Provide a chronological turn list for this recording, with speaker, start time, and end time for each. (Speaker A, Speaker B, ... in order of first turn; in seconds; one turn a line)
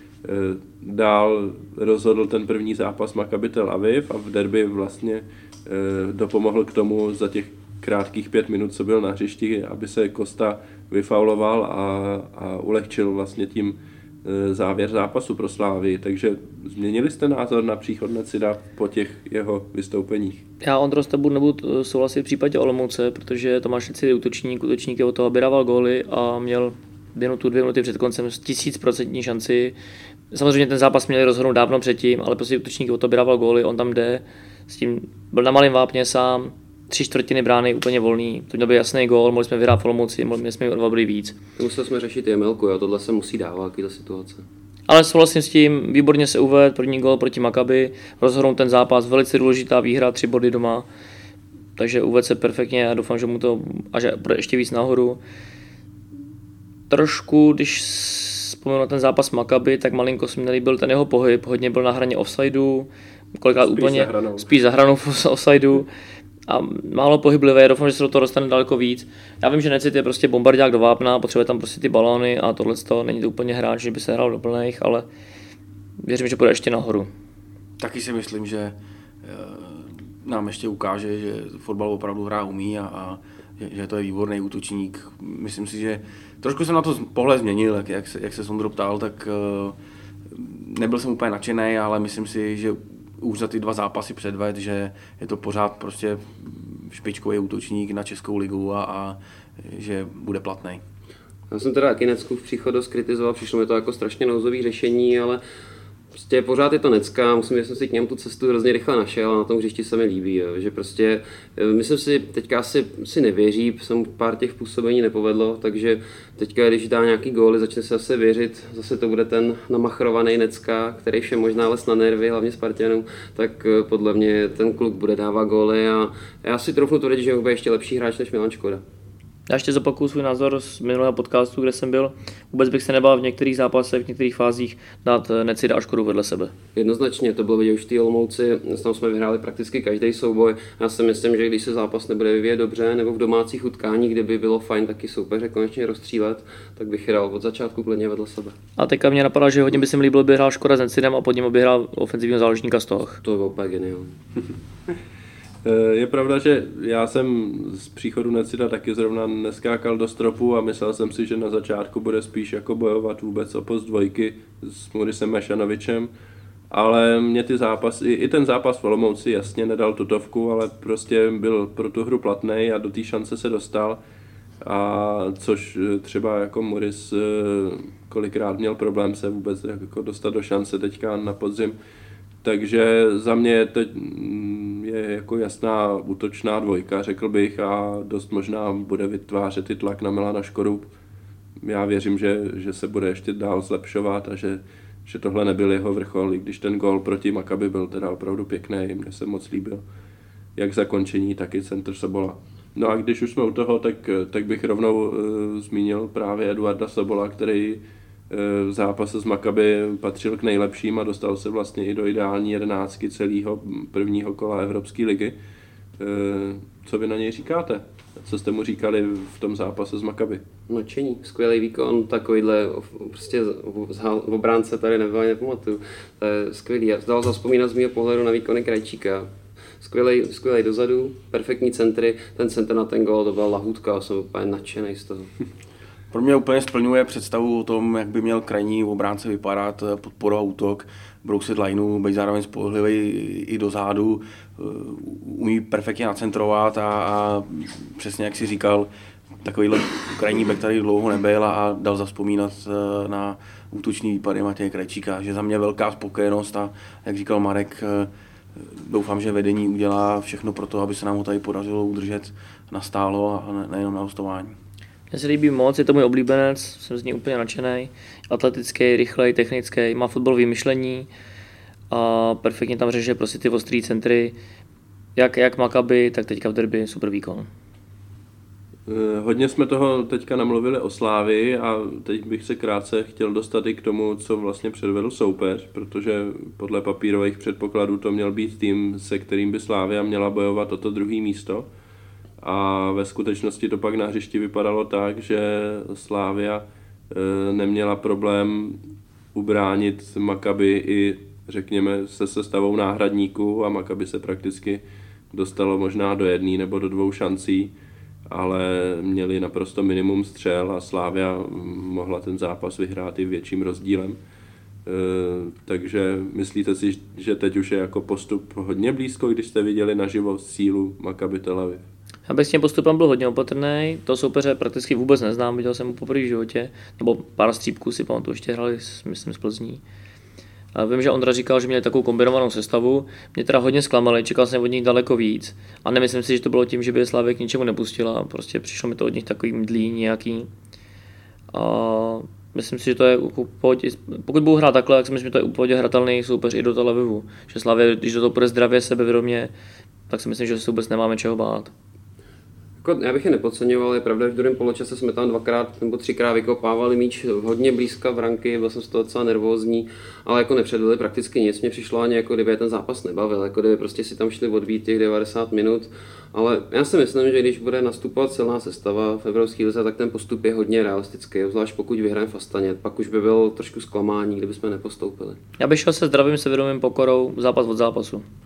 Speaker A: 0.2-20.4
Speaker B: 20.6-29.8
Speaker B: 30.3-41.4
Speaker C: 41.6-44.4
Speaker B: 44.9-50.9
Speaker B: 51.8-55.2
Speaker B: 56.9-62.9
Speaker B: 63.4-65.9
Speaker A: 63.6-64.5
Speaker B: 66.5-75.0
Speaker B: 76.0-77.1
Speaker D: 77.8-89.8
Speaker D: 90.3-100.8
Speaker C: 101.5-105.4
Speaker C: 106.1-128.8
Speaker B: 129.5-136.5
Speaker C: 136.7-148.5
Speaker B: 148.8-153.2
Speaker C: 153.2-154.1
Speaker A: 155.6-166.1
Speaker A: 166.7-174.0
Speaker A: 174.6-181.7
Speaker A: 182.4-190.9
Speaker A: 191.6-199.8
Speaker A: 200.6-215.3
Speaker A: 216.0-220.4
Speaker C: 220.7-229.3
Speaker C: 229.8-235.3
Speaker D: 236.1-248.9
Speaker D: 249.4-264.6
Speaker B: 265.1-271.1
Speaker B: 271.9-274.4
Speaker B: 275.1-277.5
Speaker A: 278.9-291.6
Speaker A: 292.4-298.8
Speaker A: 299.3-304.8
Speaker A: 305.3-307.7
Speaker A: 308.3-314.2
Speaker A: 314.9-321.8
Speaker B: 322.3-329.8
Speaker B: 330.7-340.5
Speaker B: 341.5-349.5
Speaker B: 350.1-351.7
Speaker C: 352.8-375.4
Speaker B: 375.6-378.2